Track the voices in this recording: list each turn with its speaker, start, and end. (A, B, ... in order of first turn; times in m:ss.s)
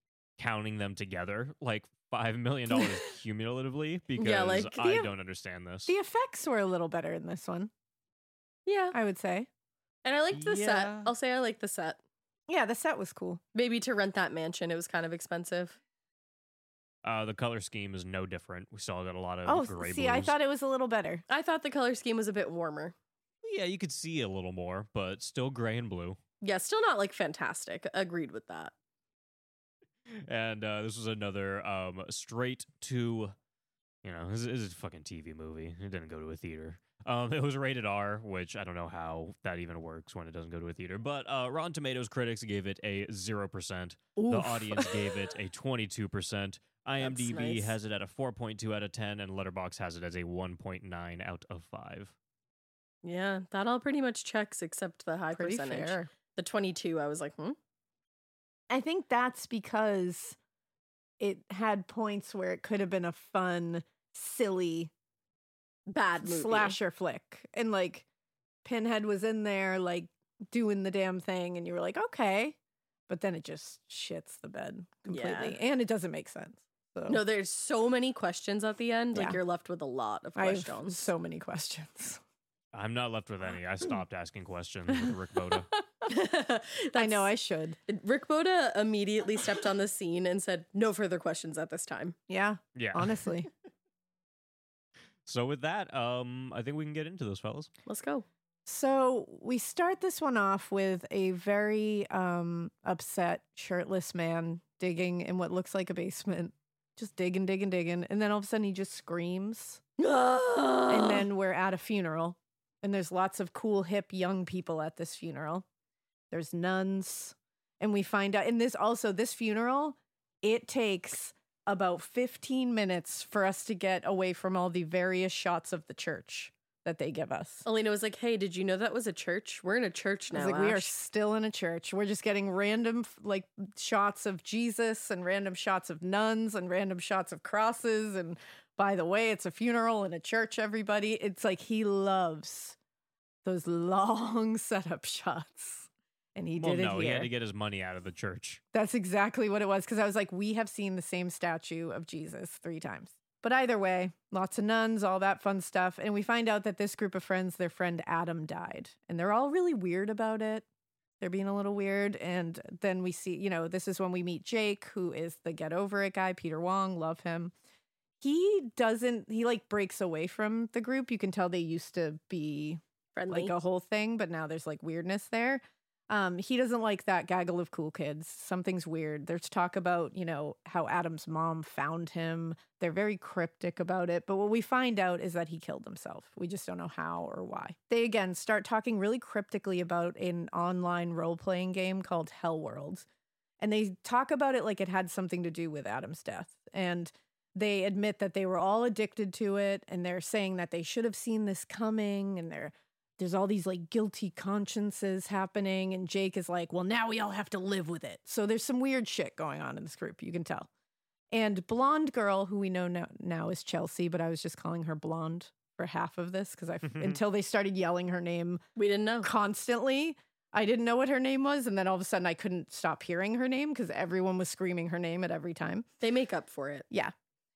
0:00.4-0:05.9 A
0:04.2-0:04.9 B
0:04.8-0:05.1 C
0:05.8-0:07.7 C
0:08.6-0:09.0 B
0:08.9-0:09.5 C
0:10.0-0:12.0 B
0:10.3-0:11.1 A
0:12.5-0:13.4 C
0:13.5-0:15.8 B
0:17.0-0:20.3 A
0:19.4-0:21.2 C
0:21.3-0:22.9 B
0:23.4-0:26.2 A
0:26.4-0:28.7 B
0:30.1-0:33.3 A
0:34.0-0:52.1 A
0:44.2-0:45.0 C
0:47.0-0:47.8 B
0:53.0-0:57.6 B
0:55.3-0:56.1 C
0:58.7-1:00.4 C
1:01.2-1:04.9 C
1:05.9-1:06.8 B
1:06.2-1:08.0 C
1:08.6-1:12.6 C
1:13.1-1:17.2 C
1:15.1-1:15.6 B
1:17.1-1:21.1 B
1:19.1-1:19.4 C
1:20.4-1:22.2 C
1:22.7-1:25.7 A
1:26.0-1:27.3 B
1:26.9-1:27.8 C
1:27.9-1:32.2 B
1:32.3-1:33.5 C
1:32.8-1:33.3 A
1:35.2-1:37.7 A
1:37.8-1:38.2 B
1:38.6-1:49.8 C
1:50.0-1:51.3 B
1:50.9-1:55.6 C
1:56.3-2:07.6 C
2:07.6-2:10.9 B
2:10.3-2:22.8 C
2:23.4-2:27.3 C
2:26.6-2:28.6 A
2:28.7-2:40.6 C
2:41.2-2:47.5 C
2:48.2-3:13.0 C
2:53.2-2:53.5 B
3:13.6-3:30.7 C
3:31.3-3:38.6 C
3:36.8-3:37.2 A
3:38.8-3:39.3 B
3:39.2-3:45.9 C
3:46.0-3:46.9 B